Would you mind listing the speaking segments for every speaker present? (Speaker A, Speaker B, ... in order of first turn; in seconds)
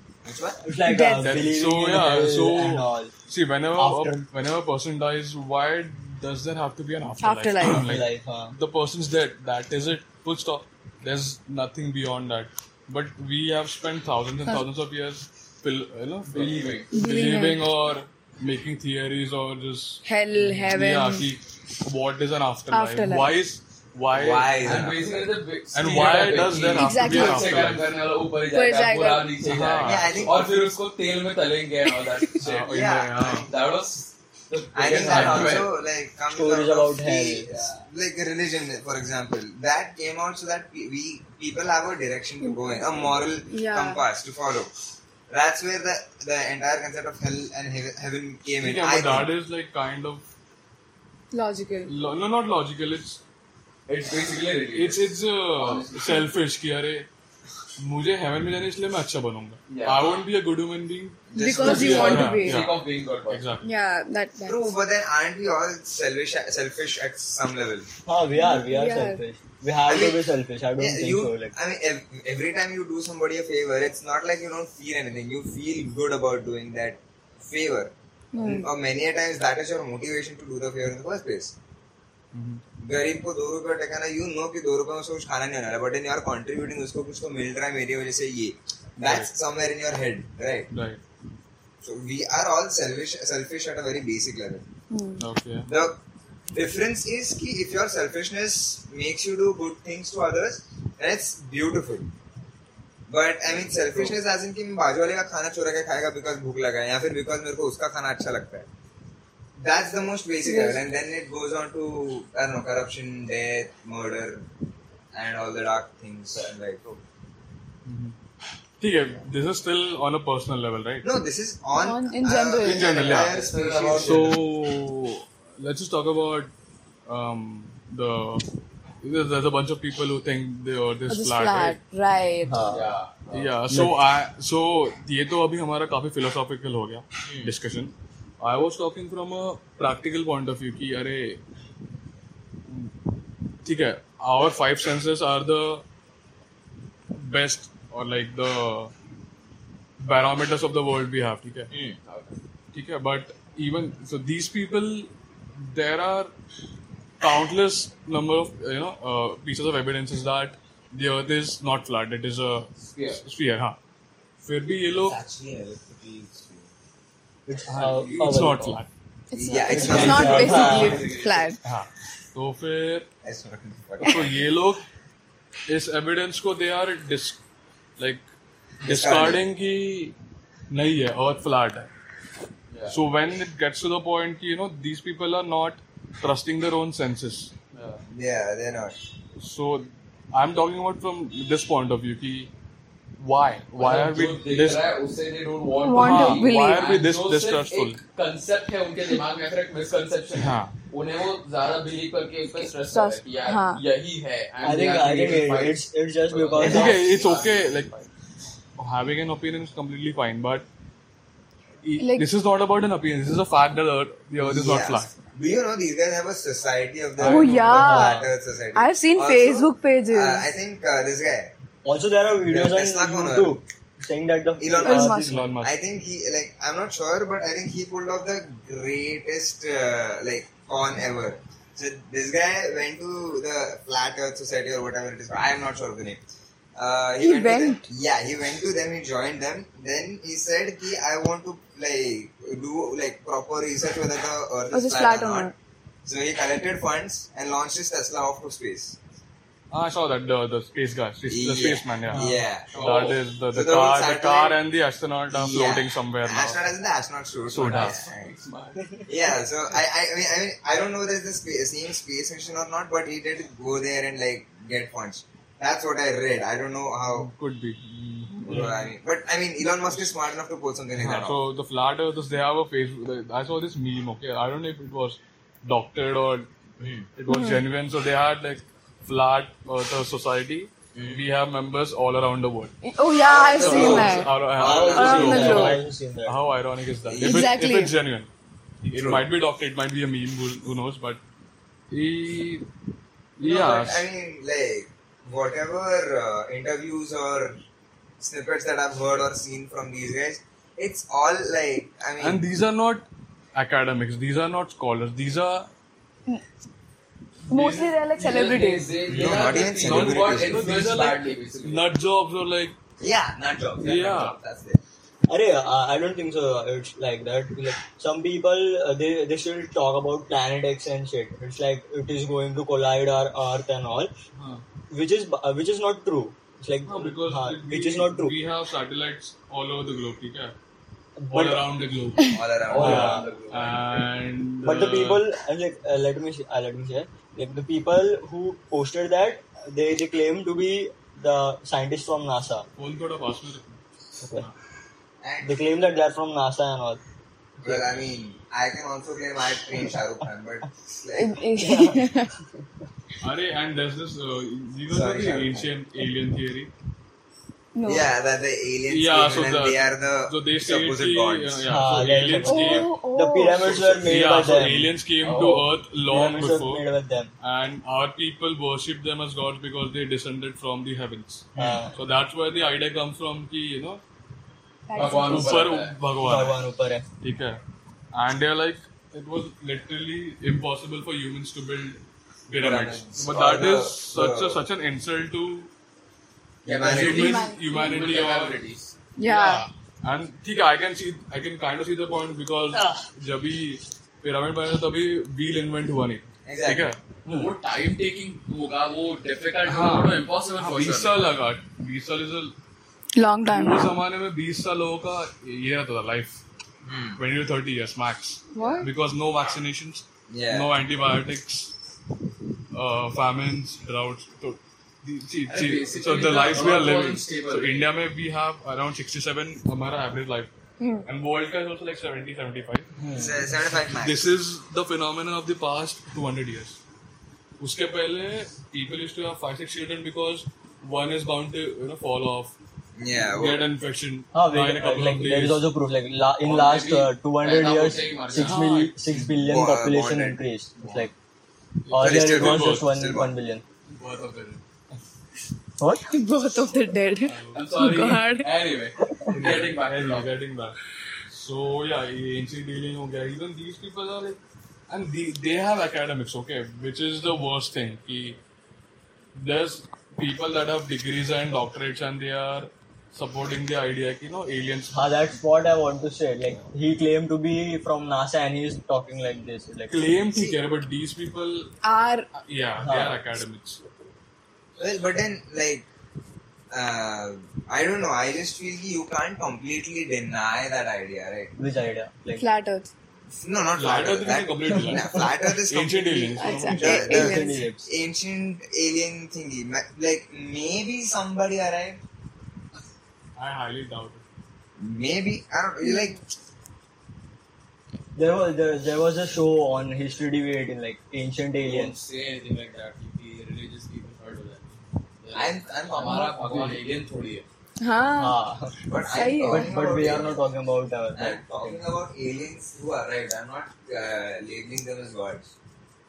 Speaker A: 0.2-0.6, 24.1-25.3, 29.8-30.6, 32.6-33.5, 34.7-44.7, 45.3-49.3, 61.3-62.2, 64.5-67.9, 69.9-70.2, 70.8-81.5, 82.8-90.7, 91.8-94.7, 95.7-96.0, 96.5-102.1, 103.1-108.7, 109.6-114.4, 115.1-116.8, 121.0-124.4, 165.0-166.7, 169.3-171.0, 173.2-174.3, 178.8-179.4, 188.1-188.9, 214.4-221.5, 222.5-223.6, 224.6-236.2, 236.8-245.5, 246.0-249.0, 251.3-252.8, 253.5-254.6, 255.3-258.3, 259.1-267.3, 268.4-271.4, 283.2-285.6, 287.1-287.5, 288.9-289.2, 293.4-297.6, 298.2-302.4, 309.1-310.7, 313.0-314.8, 332.3-333.2, 345.2-345.6, 347.6-351.4, 354.9-355.7, 357.8-361.6, 382.5-384.6, 386.6-387.3, 396.4-396.9, 406.9-407.2, 410.3-410.7, 423.1-424.3, 433.0-433.6, 439.3-440.4, 442.0-443.3, 474.8-475.9, 476.7-481.5, 483.4-492.0, 494.8-496.2, 505.3-506.4, 508.9-510.4, 511.1-515.5
Speaker B: 0.6-3.1, 3.8-4.3, 7.6-8.5, 36.3-37.6, 68.0-71.5, 132.4-132.8, 133.7-133.9, 167.4-168.8, 169.7-171.0, 204.6-207.1, 217.8-218.3, 221.8-225.4, 252.1-252.4, 284.6-286.4, 315.3-324.1, 324.9-328.3, 331.2-331.7, 332.7-333.3, 334.6-342.6, 344.2-344.4, 345.4-347.0, 351.6-352.0, 361.7-364.9, 366.1-367.3, 371.6-371.9, 376.2-377.1, 397.2-397.5, 423.0-423.4, 434.3-441.1, 441.9-443.6, 445.8-446.1, 464.9-470.1, 472.8-473.2, 481.6-482.4, 484.7-485.3, 486.8-487.9, 498.1-501.9, 508.2-508.8, 509.4-511.8
Speaker C: 0.9-1.3, 7.2-7.8, 16.9-17.6, 20.0-21.3, 22.7-23.3, 26.7-27.7, 28.5-29.3, 42.4-42.7, 43.5-44.0, 51.3-51.9, 61.4-62.6, 63.6-64.6, 68.4-69.2, 78.3-78.7, 94.9-95.2, 110.4-110.8, 121.7-123.1, 131.1-132.6, 169.3-171.6, 195.8-196.8, 202.5-203.8, 212.0-212.3, 217.2-218.2, 218.7-220.4, 224.8-225.4, 237.2-237.8, 244.7-245.5, 277.3-277.6, 282.8-284.3, 284.9-285.8, 287.2-287.9, 307.5-309.0, 351.2-352.4, 357.7-358.1, 362.4-363.7, 374.9-375.6, 387.0-388.0, 389.2-389.6, 403.1-403.9, 408.5-408.9, 420.8-421.1, 446.1-448.5, 471.8-472.3, 482.4-482.9, 486.4-487.6, 495.8-496.1, 507.8-508.4, 509.1-509.7
Speaker D: 1.2-25.0, 25.7-27.8, 29.4-30.3, 32.4-33.5, 34.9-35.7, 48.6-50.2, 51.9-53.2, 54.7-57.1, 57.8-63.7, 82.3-82.6, 89.0-89.3, 90.7-91.0, 95.2-95.7, 117.8-118.2, 118.8-121.0, 122.6-123.3, 124.0-126.5, 127.0-128.4, 129.0-131.8, 133.3-141.4, 143.6-145.8, 147.1-148.9, 150.0-151.7, 152.7-156.3, 157.2-163.8, 164.4-165.2, 167.7-168.9, 171.6-173.1, 174.0-174.8, 175.7-177.4, 178.0-178.2, 178.8-180.1, 180.7-181.9, 182.9-187.5, 189.4-192.5, 193.2-194.8, 195.9-198.0, 200.4-200.7, 206.6-207.9, 208.8-210.7, 211.8-215.1, 217.2-217.8, 225.1-225.7, 249.7-256.6, 257.5-258.1, 267.1-268.9, 271.0-276.5, 277.1-282.7, 283.6-288.3, 288.8-291.2, 291.9-292.7, 293.4-294.1, 302.2-305.7, 307.5-307.9, 309.1-312.8, 313.8-314.4, 324.4-324.6, 326.9-330.5, 331.3-335.2, 342.8-344.5, 353.2-356.7, 358.9-362.9, 363.5-366.8, 367.4-374.0, 375.0-376.6, 377.2-377.6, 378.1-385.7, 386.8-388.6, 389.2-397.0, 399.7-402.5, 403.4-406.4, 407.1-411.7, 412.7-420.5, 421.0-422.9, 423.9-426.8, 427.6-432.5, 433.1-435.7, 438.4-439.2, 441.9-442.9, 447.2-447.6, 449.3-458.4, 459.3-465.0, 469.9-471.7, 472.3-473.8, 483.8-487.3, 493.4-494.2, 506.4-506.8
Speaker E: 16.3-16.9, 24.6-35.7, 53.9-56.2, 59.7-60.2, 61.6-63.5, 123.1-124.4, 132.7-133.5, 151.7-152.3, 162.8-163.2, 169.6-171.5, 182.7-183.0, 187.7-188.0, 193.8-208.1, 252.7-253.2, 257.6-258.8, 308.1-311.9, 332.6-334.0, 365.2-365.7, 374.9-375.9, 386.6-388.9, 397.3-401.3, 415.5-417.9, 436.4-438.6, 443.9-444.6, 447.5-450.3, 501.6-507.4